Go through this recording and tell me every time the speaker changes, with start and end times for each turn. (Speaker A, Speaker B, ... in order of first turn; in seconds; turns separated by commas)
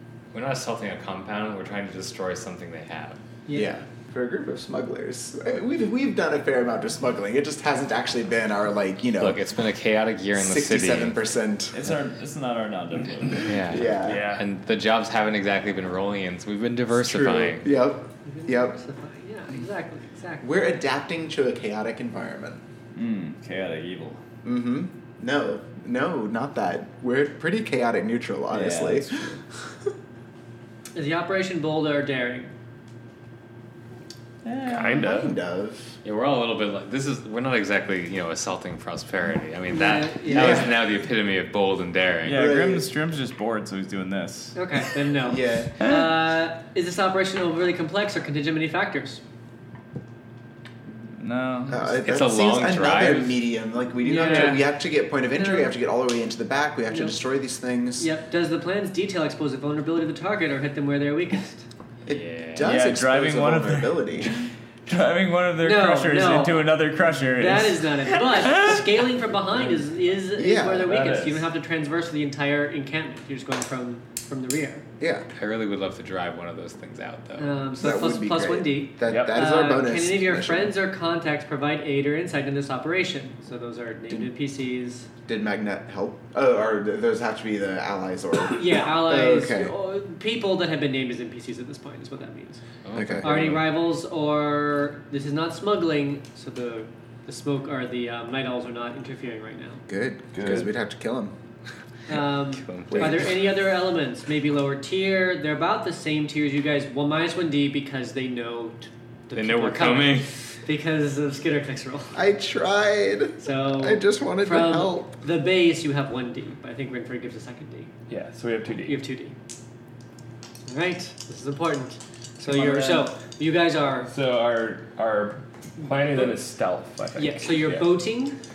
Speaker A: 0.3-3.2, Speaker B: 3.5-3.8, Speaker C: 3.5-9.4, Speaker A: 9.2-11.2, Speaker C: 10.3-11.8, Speaker D: 11.7-14.0, Speaker A: 13.5-17.7, Speaker C: 13.6-14.3, Speaker E: 14.0-14.5, Speaker C: 16.9-18.8, Speaker B: 18.2-20.5, Speaker C: 20.4-22.6, Speaker D: 22.9-24.2, Speaker C: 24.4-29.4, Speaker D: 28.5-29.3, Speaker B: 30.9-32.5, Speaker D: 34.4-35.3, Speaker E: 34.6-35.3, Speaker C: 34.8-36.0, Speaker A: 36.0-42.4, Speaker B: 39.7-40.7, Speaker C: 40.3-40.7, Speaker D: 42.3-44.8, Speaker C: 42.3-42.9, Speaker B: 44.5-49.2, Speaker C: 45.2-45.8, Speaker D: 45.8-46.1, Speaker D: 51.2-51.9, Speaker C: 51.7-58.1, Speaker A: 52.0-53.5, Speaker B: 54.0-54.8, Speaker B: 55.3-55.7, Speaker B: 56.9-57.1, Speaker B: 58.0-61.7, Speaker A: 62.1-62.7, Speaker C: 62.1-64.4, Speaker D: 62.6-68.8, Speaker B: 65.6-74.9, Speaker C: 70.3-71.1, Speaker E: 70.9-71.4, Speaker C: 75.0-75.3, Speaker A: 75.3-77.5, Speaker B: 77.4-85.1, Speaker C: 77.8-80.7, Speaker E: 79.1-79.5, Speaker C: 85.3-89.7, Speaker B: 88.5-92.6, Speaker A: 92.8-93.5, Speaker C: 92.9-93.7, Speaker B: 93.2-99.8, Speaker C: 99.9-101.3, Speaker E: 100.4-100.7, Speaker B: 102.1-112.2, Speaker A: 102.5-103.3, Speaker C: 102.9-103.5, Speaker A: 109.3-110.4, Speaker C: 112.2-115.1, Speaker B: 113.4-117.9, Speaker E: 118.1-119.0, Speaker B: 118.9-119.4, Speaker B: 120.7-124.1, Speaker D: 122.5-123.0, Speaker E: 122.7-123.0, Speaker E: 124.1-128.0, Speaker B: 127.2-128.4